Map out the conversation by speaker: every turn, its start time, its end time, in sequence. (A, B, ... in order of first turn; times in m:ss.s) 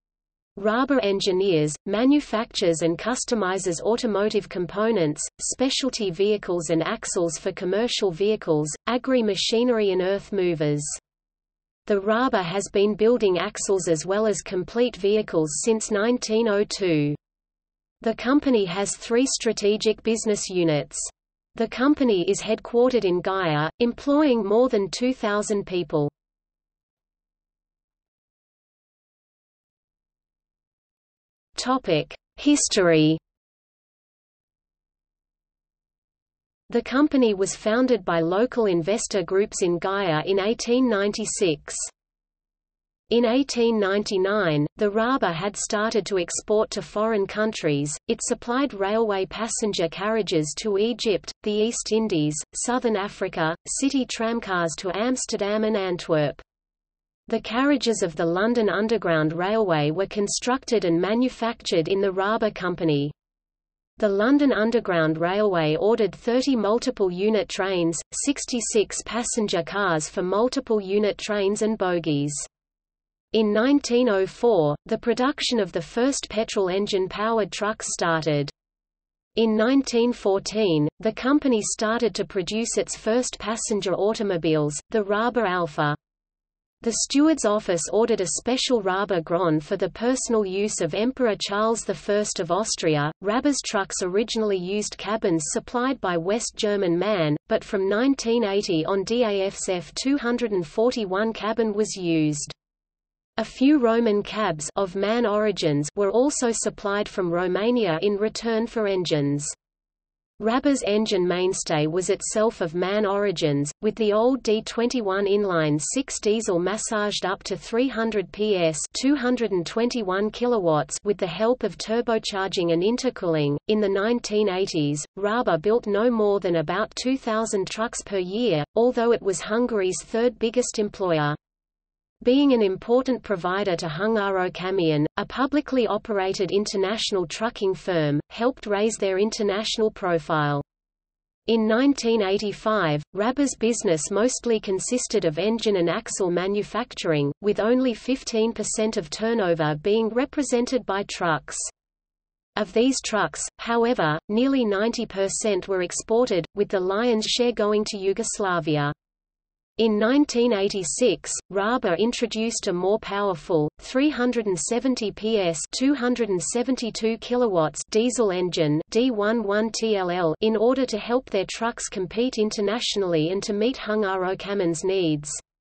0:00.6-0:11.0 A
0:11.8-0:17.2 A
0:18.0-0:26.1 A
0:31.6-0:33.2 A
0:36.7-0:41.9 A
0:43.1-0:56.4 A
0:57.3-1:03.1 A
1:04.0-1:12.5 A
1:13.3-1:18.5 A
1:19.4-1:26.0 A
1:26.8-1:42.5 A
1:43.4-1:49.5 A
1:50.4-2:11.4 A
2:12.2-2:20.6 A
2:21.5-2:31.7 A
2:32.6-2:38.9 A
2:39.8-2:55.4 A